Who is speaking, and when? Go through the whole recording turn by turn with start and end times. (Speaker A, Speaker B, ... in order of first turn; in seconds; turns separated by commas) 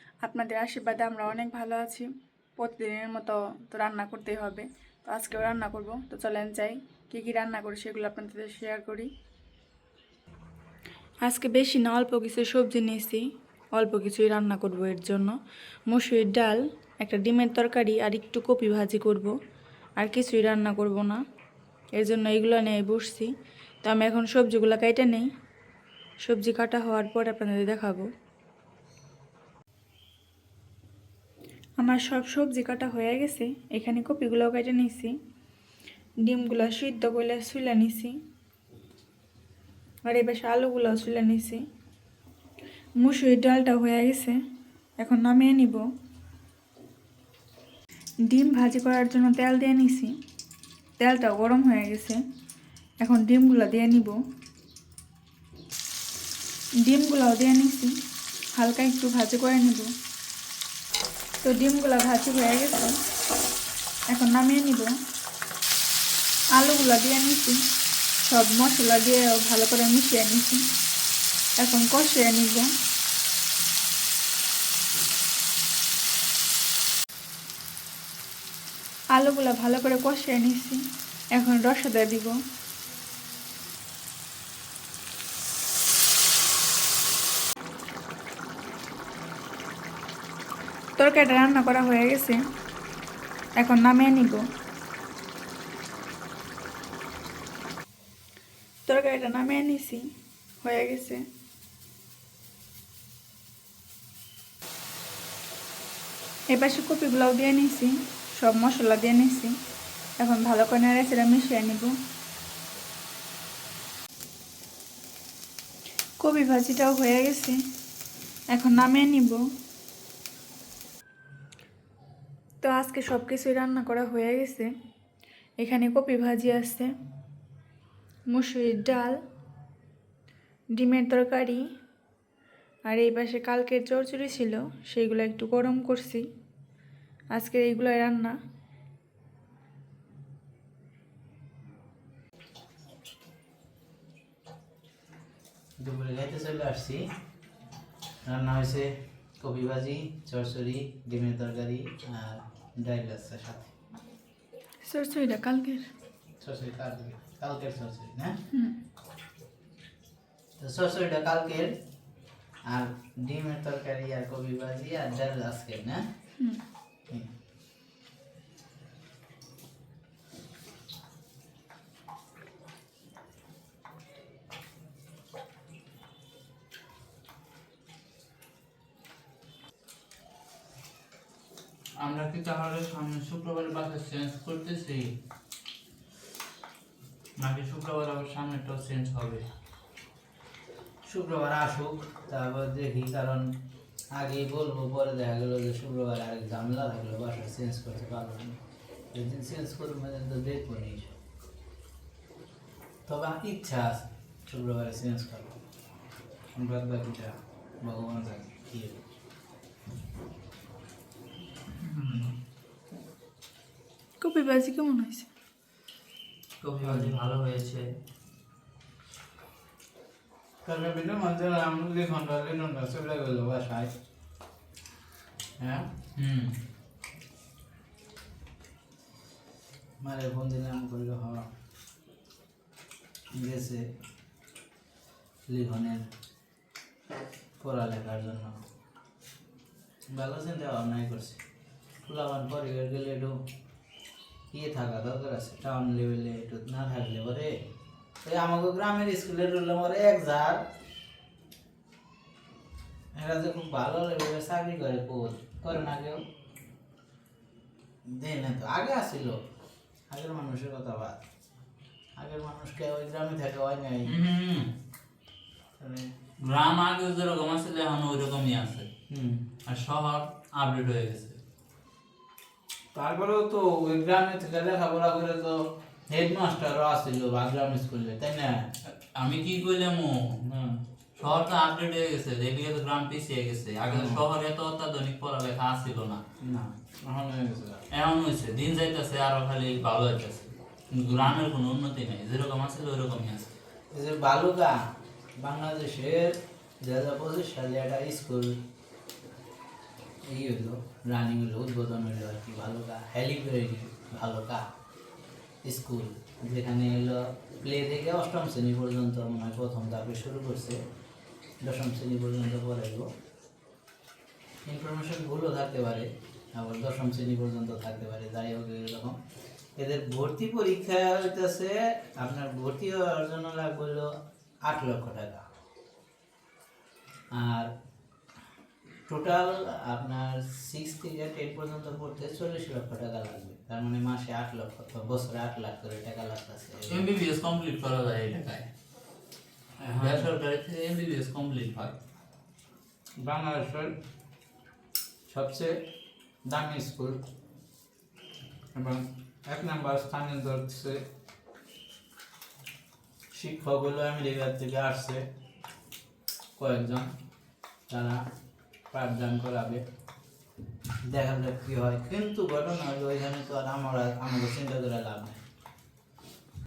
Speaker A: 0.2-2.1, Speaker A: 2.6-9.1, Speaker A: 11.2-13.2, Speaker A: 13.7-15.3, Speaker A: 15.9-19.3, Speaker A: 20.0-21.2, Speaker A: 21.9-23.3, Speaker A: 23.8-25.3, Speaker A: 26.2-28.1, Speaker A: 31.8-35.1, Speaker A: 36.2-38.2, Speaker A: 40.0-41.6, Speaker A: 43.0-44.4, Speaker A: 45.0-45.8, Speaker A: 48.3-50.1, Speaker A: 51.0-52.2, Speaker A: 53.0-54.1, Speaker A: 56.8-57.9, Speaker A: 58.5-59.9, Speaker A: 61.4-63.0, Speaker A: 64.1-64.9, Speaker A: 66.5-67.6, Speaker A: 68.3-70.6, Speaker A: 71.6-72.7, Speaker A: 79.1-80.8, Speaker A: 81.3-82.3, Speaker A: 91.0-92.4, Speaker A: 93.6-94.4, Speaker A: 98.9-100.0, Speaker A: 100.6-101.2, Speaker A: 106.5-109.5, Speaker A: 110.2-111.9, Speaker A: 116.2-117.6, Speaker A: 118.5-119.4, Speaker A: 122.6-124.7, Speaker A: 125.6-126.9, Speaker A: 128.3-129.1, Speaker A: 130.8-131.6, Speaker A: 132.9-136.3, Speaker A: 137.3-138.3, Speaker B: 145.8-147.0, Speaker B: 148.2-153.7, Speaker A: 154.8-155.9, Speaker B: 156.4-158.3, Speaker B: 160.6-161.7, Speaker B: 162.7-166.0, Speaker C: 182.0-185.1, Speaker C: 187.4-189.4, Speaker B: 191.1-193.4, Speaker B: 194.2-198.6, Speaker B: 199.1-201.2, Speaker B: 203.1-205.5, Speaker B: 206.6-207.3, Speaker B: 207.8-209.0, Speaker C: 211.8-212.3, Speaker A: 214.2-215.3, Speaker C: 216.6-217.9, Speaker B: 216.8-217.1, Speaker B: 220.6-223.9, Speaker B: 225.6-225.9, Speaker C: 226.2-226.5, Speaker B: 230.0-231.5, Speaker B: 233.3-233.8, Speaker B: 235.5-236.0, Speaker B: 237.6-238.6, Speaker B: 240.1-241.4, Speaker B: 242.1-243.3, Speaker B: 244.5-247.5, Speaker B: 248.2-250.6, Speaker B: 253.2-256.2, Speaker B: 258.1-259.4, Speaker B: 260.1-261.2, Speaker B: 262.2-264.1, Speaker C: 264.1-264.7, Speaker B: 265.8-266.0, Speaker C: 266.4-268.9, Speaker B: 269.1-269.6, Speaker C: 269.7-271.4, Speaker B: 272.9-278.7, Speaker C: 279.1-280.4, Speaker B: 280.4-280.8, Speaker C: 281.2-286.2, Speaker B: 283.9-284.2, Speaker B: 286.4-287.8, Speaker C: 287.9-293.5, Speaker B: 293.9-294.7, Speaker B: 295.4-298.5, Speaker B: 300.3-304.6, Speaker B: 305.6-310.8, Speaker B: 311.6-313.1, Speaker B: 314.6-319.1, Speaker B: 319.8-324.1, Speaker B: 324.6-325.4, Speaker B: 327.3-327.7, Speaker B: 329.1-337.1, Speaker C: 336.9-338.7, Speaker B: 339.8-340.3, Speaker C: 339.9-342.0, Speaker B: 343.2-343.9, Speaker B: 345.3-345.8, Speaker B: 346.4-347.2, Speaker B: 348.7-351.0, Speaker B: 353.3-355.2, Speaker B: 356.6-357.1, Speaker B: 357.9-358.2, Speaker B: 358.9-359.8, Speaker B: 361.1-365.4